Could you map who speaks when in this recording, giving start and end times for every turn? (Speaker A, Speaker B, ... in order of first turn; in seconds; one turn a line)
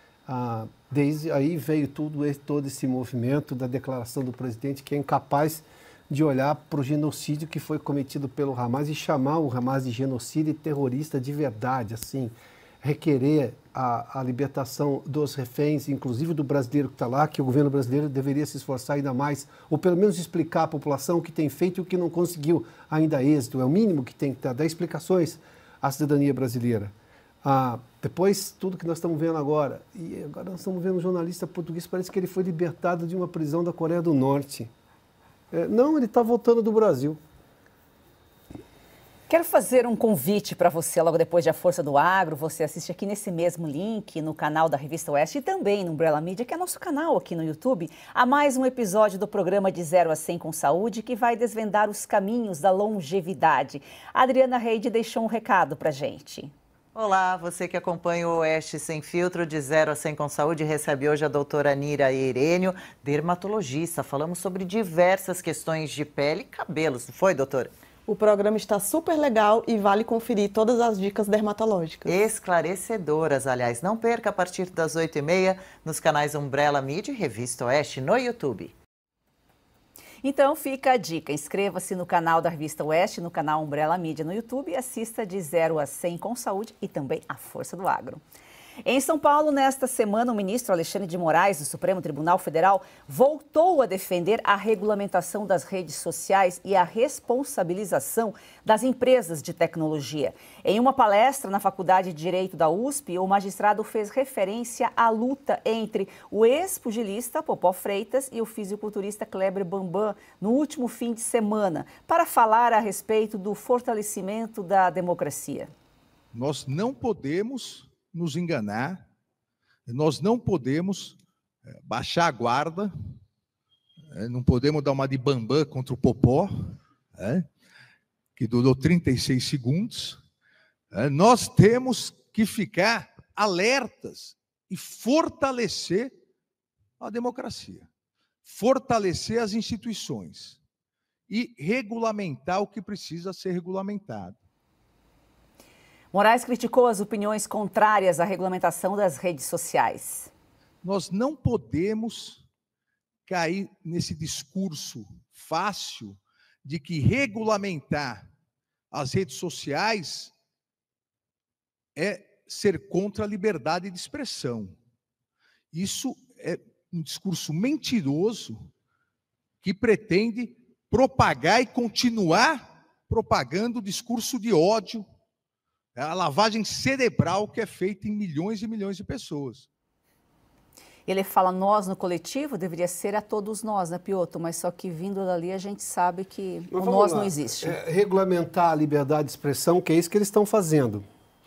Speaker A: 0.3-26.9
Speaker A: 27.4-34.7
Speaker A: 35.5-37.2
Speaker B: 39.3-56.5
Speaker C: 56.9-67.7
Speaker D: 68.1-72.1
Speaker C: 72.1-78.7
Speaker B: 80.2-88.2
Speaker B: 88.8-115.7
Speaker E: 116.3-119.0
Speaker E: 119.9-122.9
Speaker E: 124.1-126.5
Speaker E: 127.1-127.5
Speaker E: 128.3-130.2
Speaker E: 130.9-136.2
Speaker E: 137.0-137.9
Speaker E: 138.4-140.6
Speaker E: 141.3-144.4
Speaker B: 146.1-150.3
Speaker E: 150.8-152.4
Speaker E: 153.2-158.3
Speaker E: 158.9-160.3
Speaker E: 161.9-164.8
Speaker E: 165.7-168.7
Speaker E: 169.6-175.1
Speaker E: 175.9-179.7
Speaker B: 181.1-187.8
Speaker A: 186.7-191.0